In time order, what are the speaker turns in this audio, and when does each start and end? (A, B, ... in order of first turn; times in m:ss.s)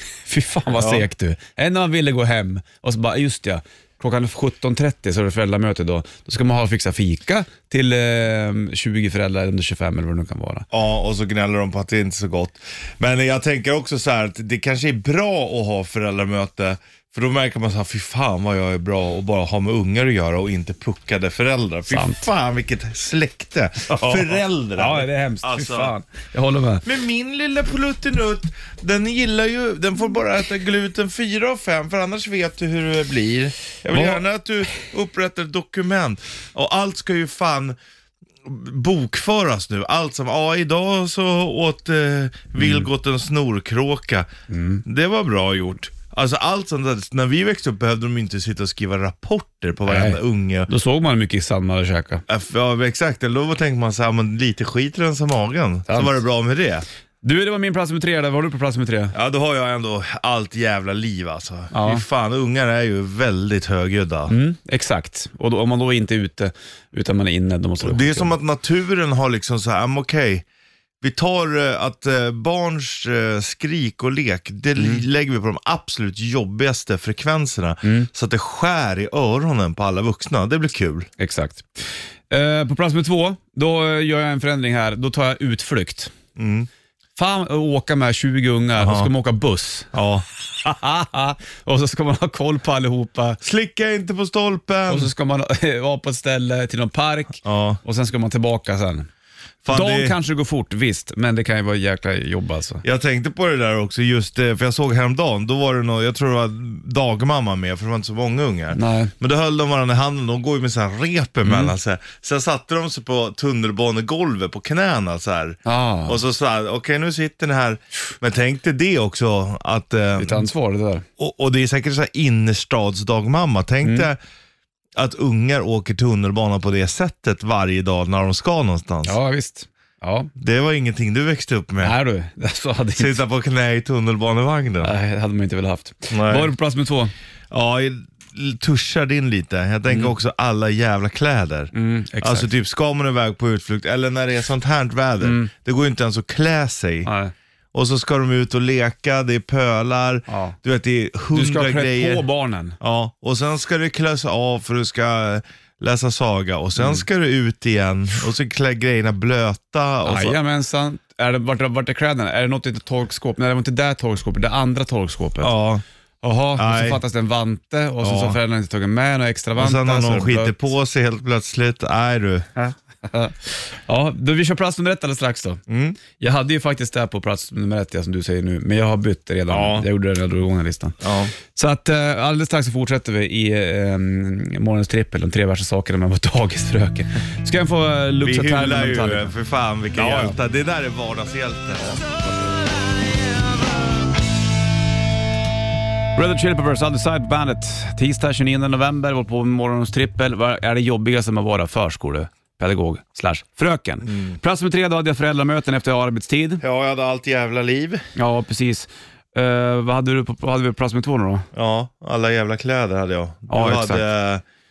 0:00.2-0:10.6 A
0:00.8-0:01.1 B
0:10.7-0:25.9 B
0:21.9-0:22.3 A
0:23.9-0:26.8 A
0:26.8-0:37.8 B
0:33.9-0:34.2 A
0:38.4-0:44.3 B
0:42.6-0:42.8 A
0:44.5-0:44.8 A
0:44.8-0:50.7 B
0:49.8-0:52.2 A
0:52.3-0:56.8 B
0:55.9-0:56.1 A
0:57.2-0:59.1 A
0:59.1-1:04.3 B
1:01.7-1:02.0 A
1:04.3-1:08.4 A
1:07.8-1:10.4 B
1:11.0-1:21.1 B
1:14.8-1:15.0 A
1:17.8-1:18.1 A
1:21.2-1:26.1 A
1:26.4-1:26.7 B
1:27.2-1:29.9 A
1:28.8-1:29.1 B
1:29.9-1:30.2 B
1:30.6-1:33.4 A
1:33.4-1:35.1 B
1:34.9-1:39.1 A
1:37.4-1:37.8 B
1:39.6-1:40.2 B
1:39.7-1:42.8 A
1:42.8-2:00.4 B
1:48.7-1:49.1 A
1:51.4-1:51.7 A
1:55.6-1:56.2 A
2:00.2-2:01.0 A
2:01.2-2:04.2 B
2:03.8-2:04.1 A
2:05.0-2:09.2 B
2:09.0-2:10.3 A
2:10.4-2:12.0 B
2:11.8-2:13.2 A
2:13.0-2:14.9 B
2:14.8-2:17.1 A
2:16.1-2:16.5 B
2:17.5-2:27.1 B
2:21.7-2:22.5 A
2:25.2-2:25.5 A
2:27.0-2:27.3 A
2:27.7-2:32.2 B
2:30.3-2:30.6 A
2:31.3-2:32.8 A
2:32.8-2:40.4 B
2:36.8-2:37.0 A
2:40.0-2:45.5 A
2:45.4-2:45.8 B
2:46.2-2:50.6 A
2:46.6-2:47.0 B
2:48.0-2:48.4 B
2:49.6-2:52.5 B
2:52.6-3:09.3 A
2:55.7-2:56.0 B
2:59.5-2:59.9 B
3:01.0-3:01.3 B
3:08.2-3:12.0 B
3:10.0-3:10.3 A
3:16.1-3:26.6 A
3:24.0-3:24.4 B
3:26.6-3:28.0 B
3:28.2-3:31.5 A
3:31.5-3:34.4 B
3:33.5-3:34.0 A